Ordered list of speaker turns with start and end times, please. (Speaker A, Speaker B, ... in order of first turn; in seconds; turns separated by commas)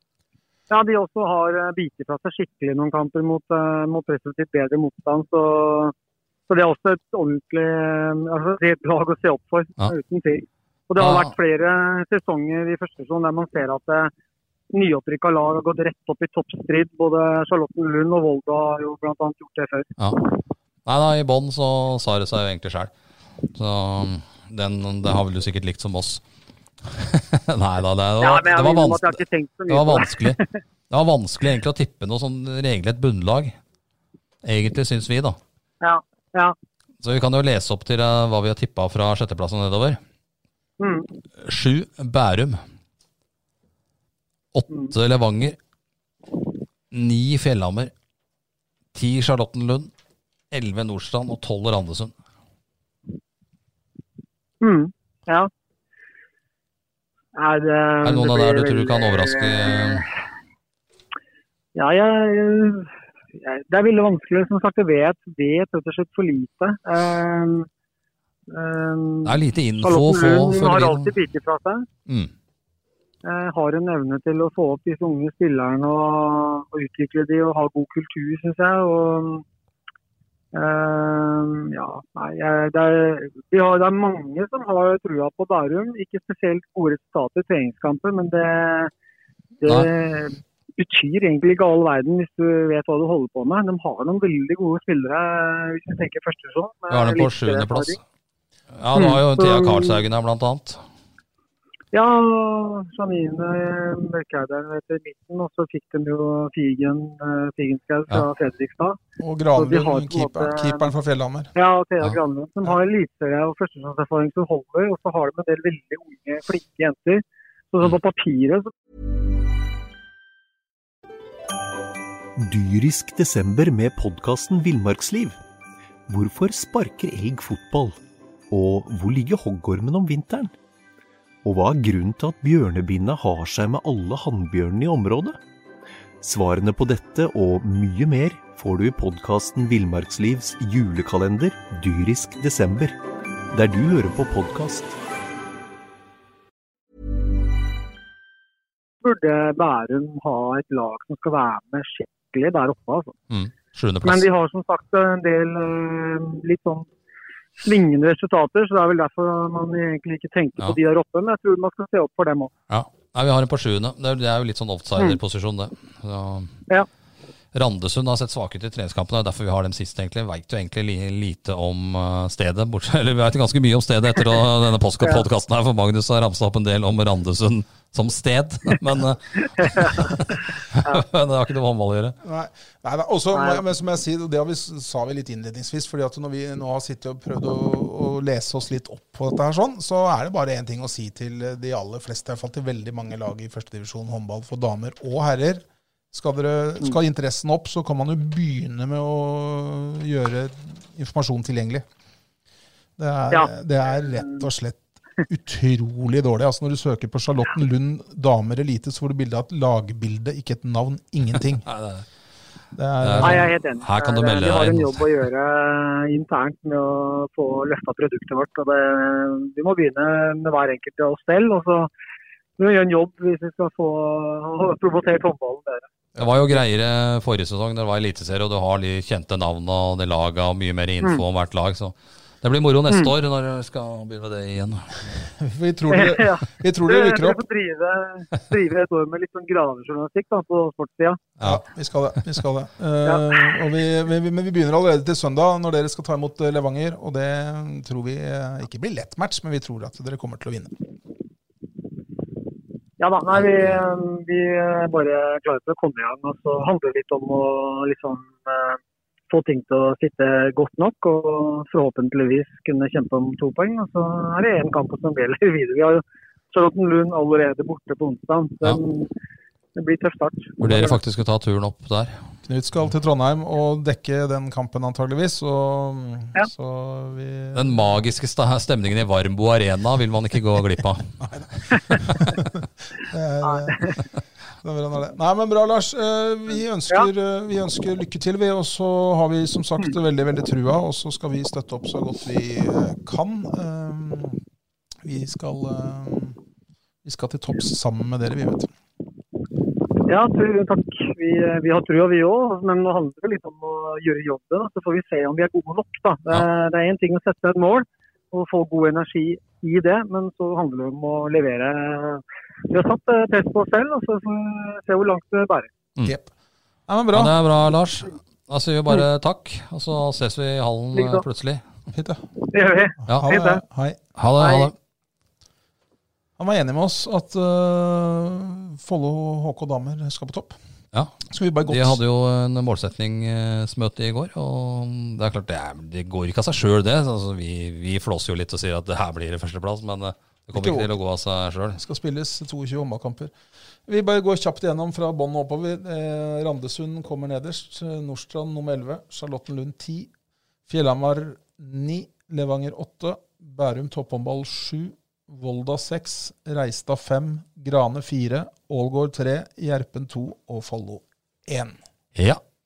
Speaker A: 0.7-5.9, Speaker A: 6.5-14.1, Speaker B: 11.0-11.3, Speaker A: 14.7-19.9, Speaker B: 20.9-22.9, Speaker B: 23.5-26.2, Speaker B: 26.8-30.4, Speaker A: 28.2-30.5, Speaker B: 30.9-33.6, Speaker B: 34.4-35.4, Speaker A: 35.8-36.6, Speaker B: 37.0-40.0, Speaker A: 40.8-41.1, Speaker B: 41.4-42.6, Speaker B: 44.5-45.6, Speaker B: 46.9-47.9, Speaker B: 48.9-49.9, Speaker B: 50.5-52.1, Speaker A: 54.6-55.5, Speaker A: 57.4-60.0, Speaker B: 58.0-60.1, Speaker A: 61.8-67.7, Speaker A: 68.5-71.9, Speaker B: 69.2-71.1, Speaker B: 72.1-72.3, Speaker A: 73.2-79.4, Speaker A: 80.5-88.9, Speaker A: 89.6-98.0, Speaker B: 89.7-89.9, Speaker B: 96.9-98.0, Speaker B: 98.7-100.8, Speaker A: 99.0-100.0, Speaker A: 101.9-109.0, Speaker C: 109.2-111.5, Speaker A: 109.6-110.9, Speaker A: 111.5-118.7, Speaker D: 122.4-125.4, Speaker D: 126.1-128.0, Speaker D: 128.5-130.5, Speaker D: 131.4-135.4, Speaker D: 136.2-143.0, Speaker D: 143.5-145.0, Speaker A: 149.0-153.2, Speaker B: 153.3-154.2, Speaker A: 154.0-156.9, Speaker A: 157.6-162.5, Speaker B: 162.7-166.6, Speaker B: 167.5-182.2, Speaker A: 179.8-180.1, Speaker C: 182.2-201.8, Speaker A: 183.3-183.6, Speaker C: 203.0-211.7, Speaker B: 211.6-212.1, Speaker C: 212.8-213.5, Speaker B: 213.0-215.1, Speaker A: 213.2-221.9, Speaker A: 222.6-225.9, Speaker C: 226.2-226.4, Speaker B: 226.2-235.1, Speaker C: 235.3-237.4, Speaker A: 235.9-241.2, Speaker B: 241.4-241.6, Speaker C: 241.4-250.8, Speaker A: 243.0-243.6, Speaker A: 253.0-258.8, Speaker B: 253.3-253.8, Speaker A: 259.3-269.1, Speaker A: 269.8-271.0, Speaker B: 270.6-272.2, Speaker C: 272.4-277.9, Speaker B: 277.5-282.3, Speaker C: 282.2-284.0, Speaker A: 283.4-284.0, Speaker C: 284.6-294.4, Speaker C: 295.1-296.4, Speaker C: 297.0-298.7, Speaker A: 300.1-315.7, Speaker C: 316.1-316.3, Speaker C: 316.9-317.4, Speaker B: 317.1-321.6, Speaker A: 320.9-321.2, Speaker C: 321.9-322.2, Speaker A: 322.5-323.6, Speaker C: 323.1-324.0, Speaker B: 324.1-324.8, Speaker A: 324.4-324.7, Speaker C: 326.4-330.6, Speaker C: 331.3-332.0, Speaker B: 331.7-341.8, Speaker C: 340.5-340.9, Speaker C: 341.8-343.3, Speaker C: 343.9-350.1, Speaker C: 350.7-361.8, Speaker B: 362.1-362.4